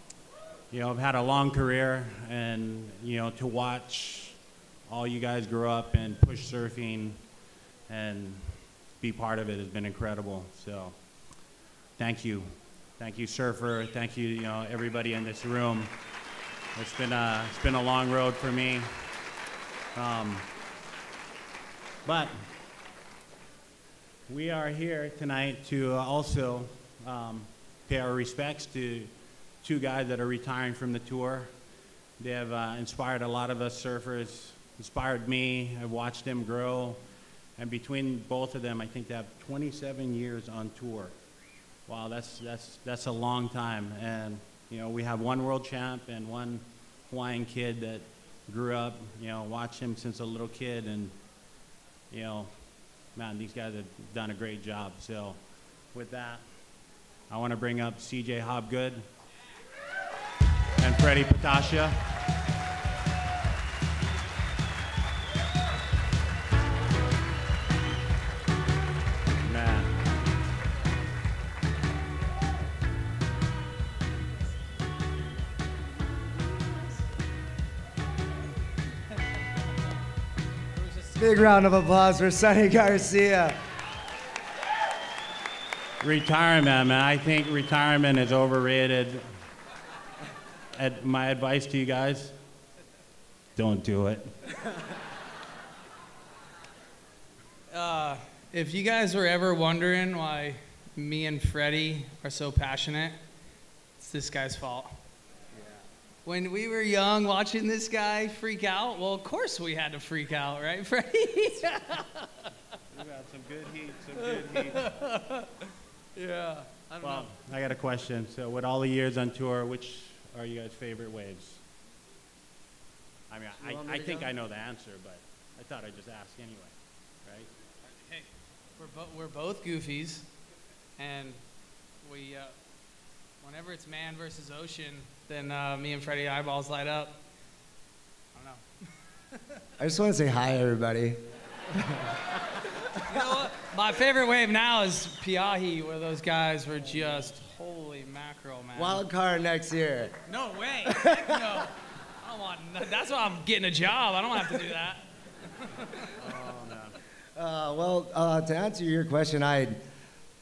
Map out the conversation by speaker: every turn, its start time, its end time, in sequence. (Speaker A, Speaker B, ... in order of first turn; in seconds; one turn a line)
Speaker A: 0.7-7.2
Speaker A: 7.9-11.0
Speaker A: 12.0-15.9
Speaker A: 16.8-18.9
Speaker A: 19.9-20.5
Speaker A: 22.1-22.4
Speaker A: 24.3-29.1
Speaker A: 29.6-31.5
Speaker A: 32.2-37.0
Speaker A: 37.6-41.2
Speaker A: 41.9-51.2
Speaker A: 52.1-52.5
Speaker A: 53.1-55.4
Speaker A: 55.9-56.5
Speaker A: 57.3-59.1
Speaker A: 60.8-62.0
Speaker A: 69.4-70.0
Speaker B: 81.2-83.6
Speaker A: 86.0-89.3
Speaker A: 90.7-92.3
Speaker A: 93.6-94.3
Speaker C: 97.7-103.2
Speaker C: 104.0-105.0
Speaker C: 106.2-112.5
Speaker A: 112.9-114.9
Speaker C: 114.2-115.5
Speaker C: 116.2-117.3
Speaker A: 117.0-121.6
Speaker A: 123.3-127.5
Speaker B: 123.6-124.3
Speaker C: 127.9-130.3
Speaker C: 131.0-131.4
Speaker C: 132.0-132.6
Speaker C: 133.4-137.2
Speaker C: 138.3-138.7
Speaker B: 139.8-141.2
Speaker B: 141.7-142.4
Speaker C: 142.9-149.1
Speaker B: 148.8-150.2
Speaker C: 150.1-156.1
Speaker B: 150.9-151.4
Speaker A: 156.2-157.0
Speaker B: 157.3-159.8